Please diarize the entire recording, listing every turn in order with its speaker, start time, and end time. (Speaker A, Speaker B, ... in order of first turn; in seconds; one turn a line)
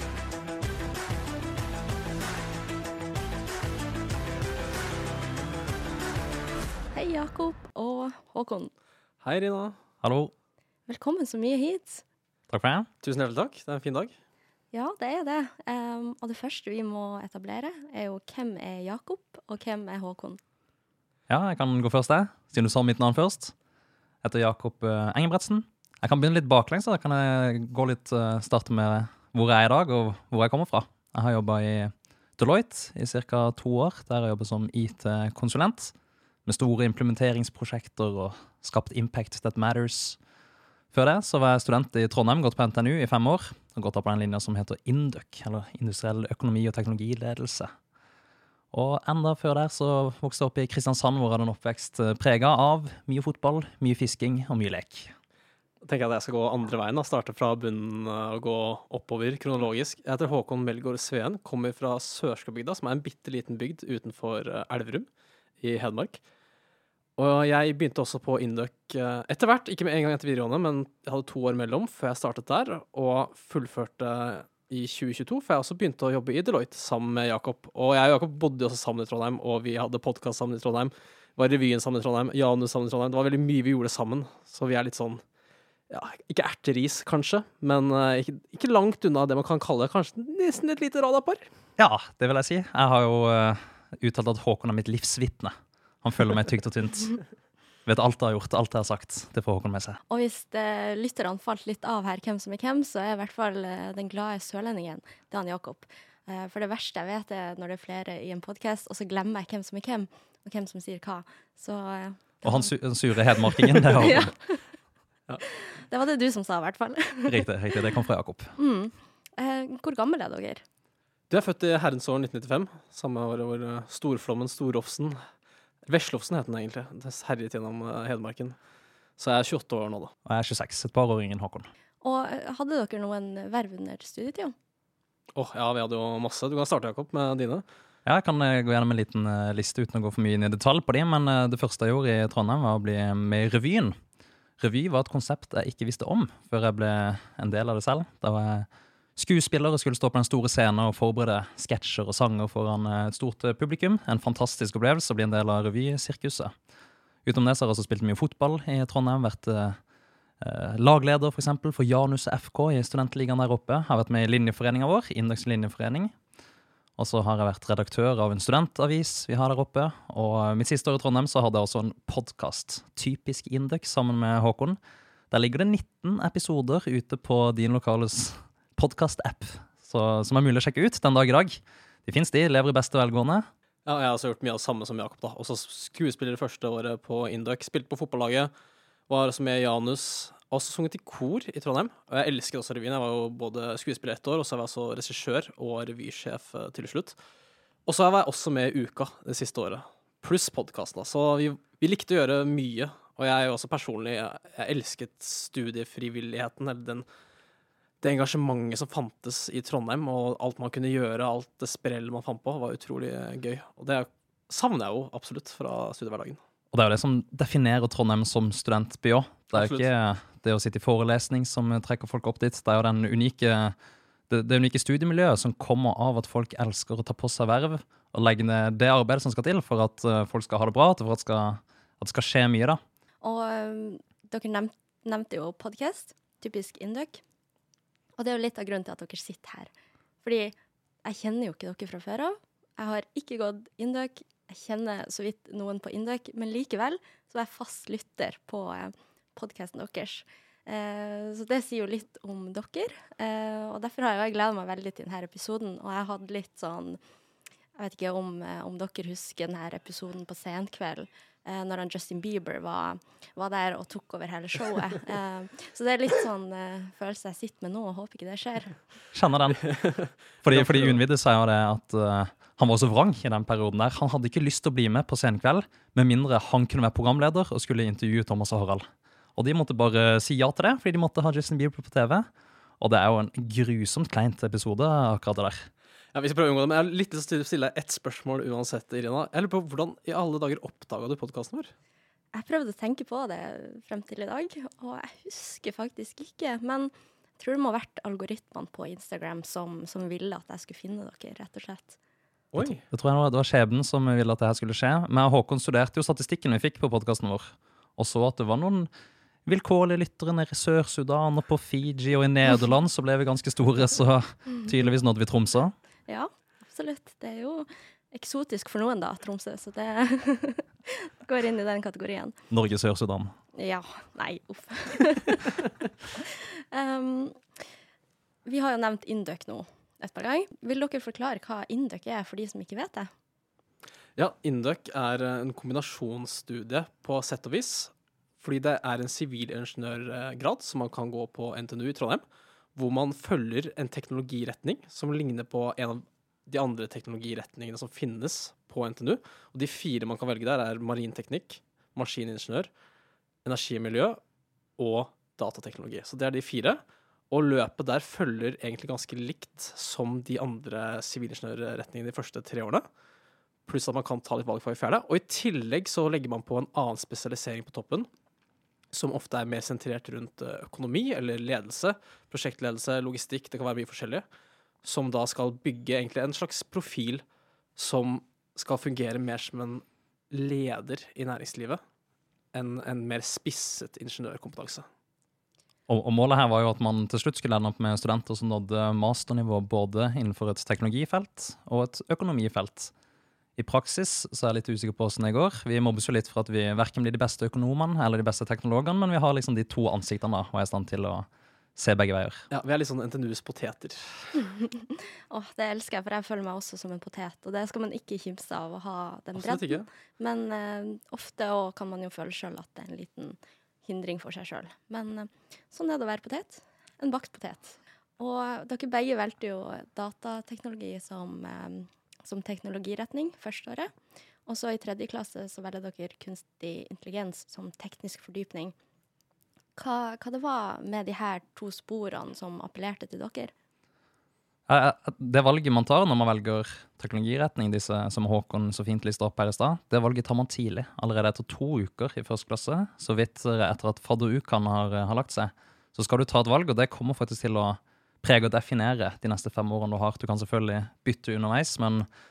Speaker A: 6.9-8.7
Speaker B: 9.2-9.8
Speaker C: 10.0-10.3
Speaker A: 10.9-12.0
Speaker C: 12.5-12.9
Speaker B: 13.0-14.2
Speaker A: 14.7-20.4
Speaker C: 21.3-23.6
Speaker C: 24.2-36.0
Speaker C: 36.5-40.2
Speaker C: 40.9-47.7
Speaker C: 48.7-55.1
Speaker B: 55.8-65.1
Speaker B: 65.6-66.2
Speaker B: 67.2-85.2
Speaker B: 85.9-91.4
Speaker C: 91.8-97.2
Speaker C: 97.9-100.0
Speaker A: 100.1-112.7
Speaker C: 112.4-114.3
Speaker A: 113.4-114.7
Speaker A: 115.4-117.5
Speaker C: 117.3-118.5
Speaker A: 118.6-120.6
Speaker B: 121.3-125.2
Speaker B: 125.9-128.6
Speaker B: 129.2-130.1
Speaker C: 130.3-131.7
Speaker A: 132.0-134.6
Speaker B: 135.3-137.7
Speaker C: 138.1-144.0
Speaker C: 144.6-156.5
Speaker C: 157.2-159.8
Speaker C: 160.4-166.1
Speaker C: 167.0-174.8
Speaker C: 175.3-183.5
Speaker B: 183.8-188.5
Speaker B: 189.1-197.2
Speaker B: 197.9-207.1
Speaker B: 208.0-216.4
Speaker C: 216.7-223.8
Speaker B: 219.5-219.9
Speaker C: 224.3-232.8
Speaker A: 233.2-237.2
Speaker A: 238.2-239.7
Speaker A: 240.2-257.0
Speaker A: 257.8-268.8
Speaker C: 269.1-269.7
Speaker B: 269.7-271.0
Speaker C: 270.4-282.3
Speaker C: 282.8-285.7
Speaker B: 286.1-291.7
Speaker A: 292.3-302.0
Speaker B: 302.5-302.8
Speaker C: 302.6-308.9
Speaker C: 309.5-315.7
Speaker A: 316.1-322.4
Speaker C: 322.5-323.3
Speaker A: 323.5-327.4
Speaker A: 328.4-333.1
Speaker B: 334.2-342.2
Speaker B: 342.8-352.7
Speaker B: 353.4-354.2
Speaker B: 354.8-362.9
Speaker B: 363.7-368.1
Speaker B: 368.9-374.2
Speaker B: 374.8-377.2
Speaker B: 377.8-381.8
Speaker B: 382.5-384.9
Speaker C: 385.9-392.9
Speaker C: 393.6-402.5
Speaker B: 402.5-404.4
Speaker A: 404.4-423.9
Speaker B: 409.4-409.9
Speaker A: 424.5-428.7
Speaker A: 429.8-433.5
Speaker C: 434.7-452.1